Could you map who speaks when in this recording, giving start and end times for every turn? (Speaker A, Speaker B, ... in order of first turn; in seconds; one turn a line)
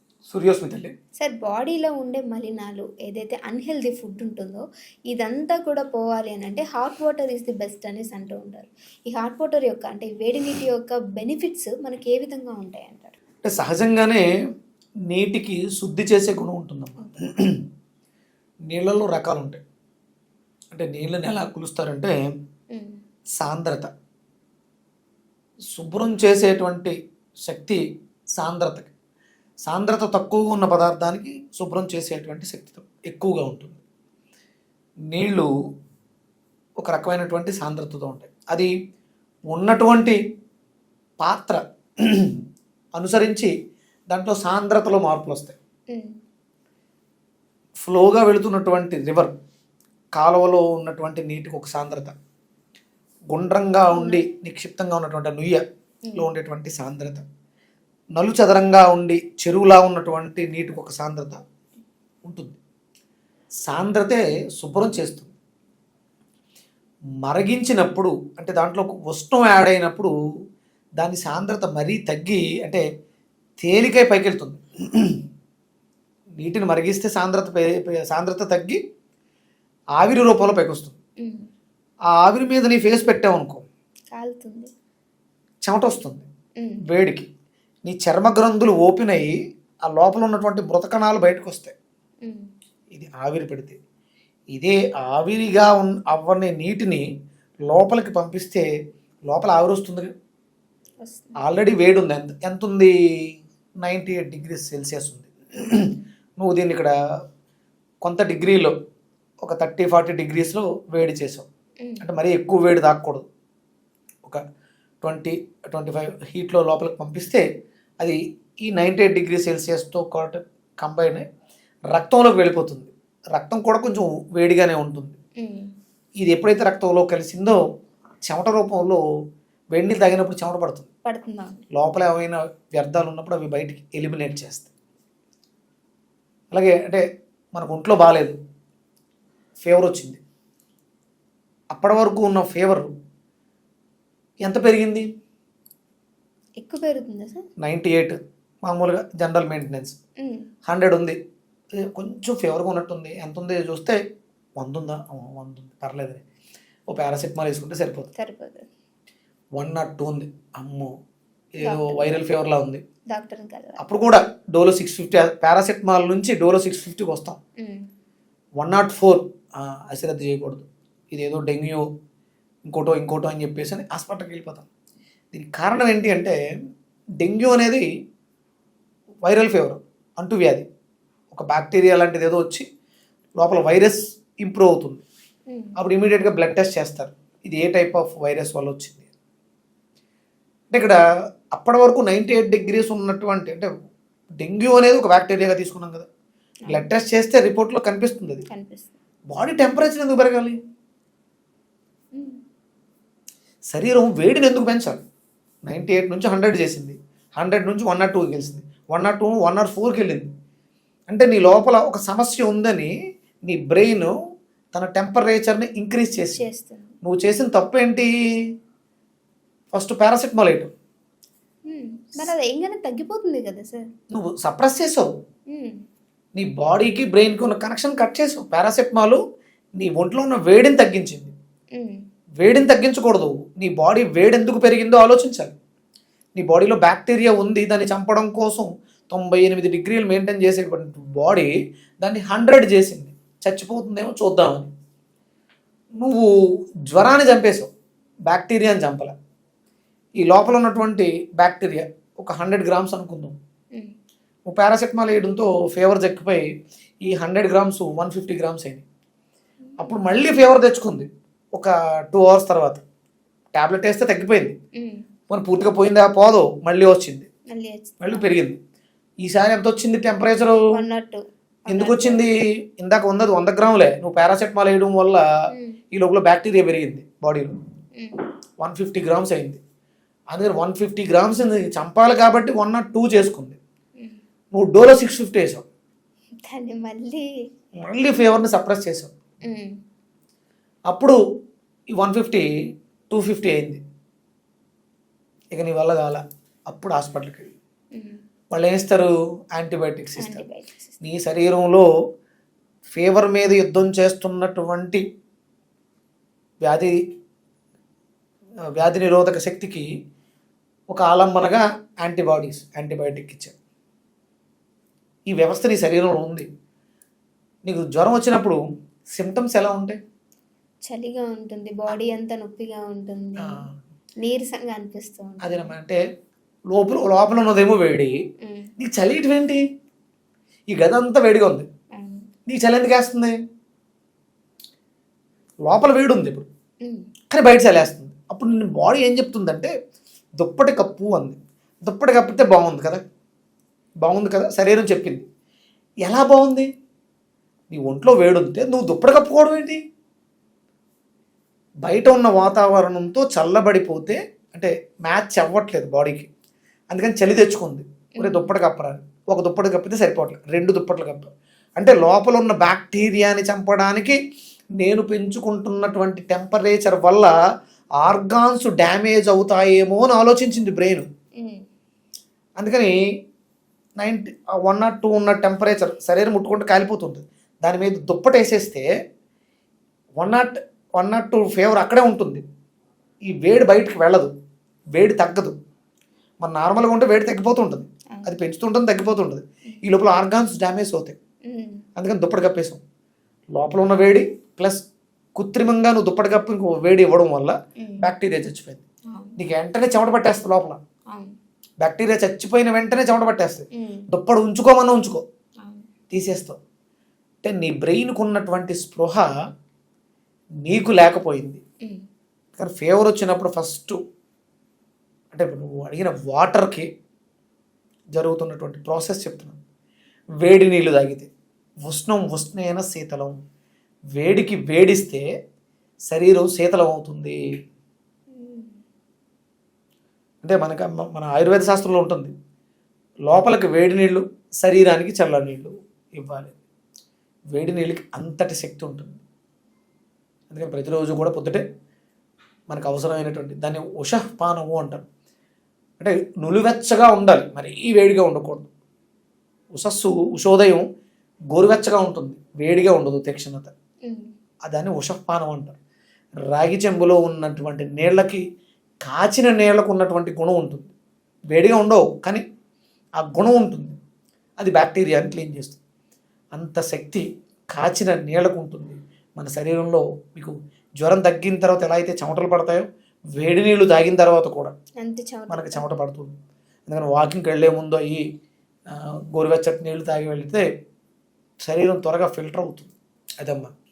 Speaker A: 0.3-0.9
Speaker B: 1.2-13.2
Speaker A: 13.4-14.2
Speaker A: 15.1-17.6
Speaker A: 18.7-19.6
Speaker A: 20.7-22.3
Speaker B: 22.7-23.0
Speaker A: 23.4-23.9
Speaker A: 25.7-27.8
Speaker A: 28.3-28.9
Speaker A: 29.6-33.8
Speaker A: 35.1-35.5
Speaker A: 36.8-38.7
Speaker A: 39.5-40.2
Speaker A: 41.2-42.4
Speaker A: 43.0-43.5
Speaker A: 44.1-45.6
Speaker B: 45.9-46.2
Speaker A: 47.8-49.3
Speaker A: 50.1-52.1
Speaker A: 53.3-55.6
Speaker B: 53.9-54.2
Speaker A: 56.1-57.2
Speaker A: 58.1-61.4
Speaker A: 62.2-62.6
Speaker A: 63.6-65.3
Speaker A: 67.2-70.1
Speaker A: 71.0-72.8
Speaker A: 73.6-75.2
Speaker A: 76.4-78.8
Speaker A: 80.0-81.0
Speaker B: 81.2-81.5
Speaker A: 82.2-83.7
Speaker B: 84.1-84.7
Speaker A: 85.6-86.3
Speaker A: 86.8-87.3
Speaker A: 87.8-91.7
Speaker B: 92.2-92.5
Speaker A: 92.9-93.8
Speaker A: 94.5-97.1
Speaker A: 97.7-98.7
Speaker A: 99.3-100.1
Speaker B: 101.0-101.4
Speaker A: 101.4-106.9
Speaker A: 108.0-108.7
Speaker A: 109.4-111.5
Speaker A: 112.0-113.2
Speaker A: 115.0-117.4
Speaker A: 118.0-121.2
Speaker A: 121.9-125.2
Speaker B: 125.4-125.7
Speaker A: 126.2-127.6
Speaker A: 128.2-129.0
Speaker A: 129.7-130.9
Speaker B: 131.0-131.6
Speaker A: 131.7-134.7
Speaker A: 136.5-137.0
Speaker A: 137.5-138.4
Speaker A: 139.6-140.2
Speaker A: 141.7-142.9
Speaker A: 144.4-145.1
Speaker B: 146.6-147.4
Speaker A: 147.6-150.0
Speaker B: 150.2-150.5
Speaker A: 150.7-151.2
Speaker A: 151.8-154.0
Speaker A: 154.6-156.2
Speaker A: 156.9-158.1
Speaker B: 158.2-158.6
Speaker A: 159.6-160.9
Speaker A: 161.6-162.8
Speaker B: 161.6-162.2
Speaker B: 163.1-163.8
Speaker A: 163.8-167.4
Speaker B: 167.6-167.9
Speaker A: 168.6-171.9
Speaker A: 172.7-174.7
Speaker A: 175.3-176.4
Speaker A: 177.2-177.8
Speaker A: 179.2-180.7
Speaker A: 181.3-182.6
Speaker A: 183.4-185.0
Speaker B: 185.5-185.8
Speaker A: 185.8-189.1
Speaker A: 190.7-191.0
Speaker A: 191.5-193.7
Speaker A: 194.4-196.1
Speaker A: 196.7-198.4
Speaker B: 198.5-198.9
Speaker A: 199.3-200.6
Speaker B: 202.1-202.4
Speaker A: 203.7-205.0
Speaker A: 205.7-210.3
Speaker A: 211.1-212.9
Speaker A: 213.4-214.1
Speaker A: 214.7-216.4
Speaker B: 216.3-216.9
Speaker A: 217.0-218.1
Speaker A: 219.7-220.7
Speaker B: 221.7-223.9
Speaker A: 224.1-225.1
Speaker B: 225.5-225.8
Speaker A: 226.3-229.2
Speaker A: 229.8-231.3
Speaker B: 231.7-232.0
Speaker A: 232.4-235.6
Speaker A: 236.3-244.7
Speaker A: 246.0-246.3
Speaker A: 246.9-247.7
Speaker A: 248.3-249.1
Speaker A: 250.2-253.3
Speaker A: 254.5-256.4
Speaker A: 257.0-258.8
Speaker A: 259.8-262.8
Speaker A: 263.5-264.6
Speaker B: 264.7-265.0
Speaker A: 265.3-267.3
Speaker B: 267.5-268.3
Speaker A: 268.0-268.6
Speaker A: 269.2-270.6
Speaker B: 270.7-272.2
Speaker A: 271.7-275.2
Speaker B: 275.5-275.8
Speaker A: 275.9-277.5
Speaker A: 278.6-279.6
Speaker A: 280.3-283.6
Speaker A: 284.5-285.6
Speaker B: 286.4-287.2
Speaker A: 287.8-289.1
Speaker B: 289.4-289.7
Speaker A: 290.9-291.2
Speaker A: 291.9-292.5
Speaker A: 293.1-293.8
Speaker A: 295.5-297.5
Speaker A: 298.5-300.4
Speaker B: 300.2-301.0
Speaker A: 301.0-301.9
Speaker A: 302.9-305.0
Speaker A: 306.6-307.0
Speaker A: 308.8-309.8
Speaker A: 310.9-313.5
Speaker A: 315.3-316.5
Speaker A: 317.6-318.6
Speaker A: 319.1-320.0
Speaker B: 320.9-323.6
Speaker A: 323.4-323.7
Speaker B: 324.2-325.7
Speaker A: 325.4-326.0
Speaker A: 326.7-328.2
Speaker B: 328.4-328.7
Speaker A: 328.8-329.6
Speaker A: 330.7-331.7
Speaker B: 331.9-332.2
Speaker A: 332.5-333.4
Speaker A: 335.6-336.5
Speaker A: 337.3-339.7
Speaker A: 340.4-343.0
Speaker A: 344.0-345.2
Speaker A: 346.0-346.7
Speaker A: 347.7-349.8
Speaker A: 351.8-356.3
Speaker A: 356.9-364.2
Speaker B: 358.2-358.5
Speaker A: 364.8-367.3
Speaker A: 368.0-371.1
Speaker A: 372.6-372.9
Speaker A: 374.0-378.9
Speaker A: 380.2-382.4
Speaker A: 383.3-384.3
Speaker A: 384.9-385.6
Speaker A: 386.4-391.1
Speaker B: 391.5-391.8
Speaker A: 391.9-392.8
Speaker A: 393.5-394.8
Speaker A: 395.4-398.8
Speaker B: 397.8-398.1
Speaker B: 399.1-399.4
Speaker A: 399.4-400.8
Speaker A: 401.8-405.2
Speaker B: 403.8-404.0
Speaker B: 405.6-405.9
Speaker A: 406.1-406.6
Speaker A: 407.4-409.3
Speaker A: 410.6-411.6
Speaker A: 412.6-414.0
Speaker A: 415.3-416.9
Speaker A: 418.1-419.6
Speaker A: 420.4-421.3
Speaker A: 421.9-423.4
Speaker A: 424.1-425.2
Speaker A: 426.1-427.4
Speaker B: 428.3-428.8
Speaker A: 430.4-432.3
Speaker A: 433.3-436.5
Speaker A: 437.5-439.2
Speaker A: 440.5-441.6
Speaker A: 442.7-445.1
Speaker A: 446.0-448.7
Speaker A: 449.7-450.8
Speaker A: 451.5-453.7
Speaker A: 454.6-455.8
Speaker A: 456.5-458.4
Speaker A: 459.0-460.9
Speaker A: 461.5-462.4
Speaker A: 463.2-463.9
Speaker A: 464.6-465.8
Speaker A: 466.5-472.9
Speaker A: 473.4-474.7
Speaker B: 475.0-475.9
Speaker A: 475.5-476.4
Speaker A: 476.9-478.2
Speaker A: 478.9-480.6
Speaker A: 481.6-483.7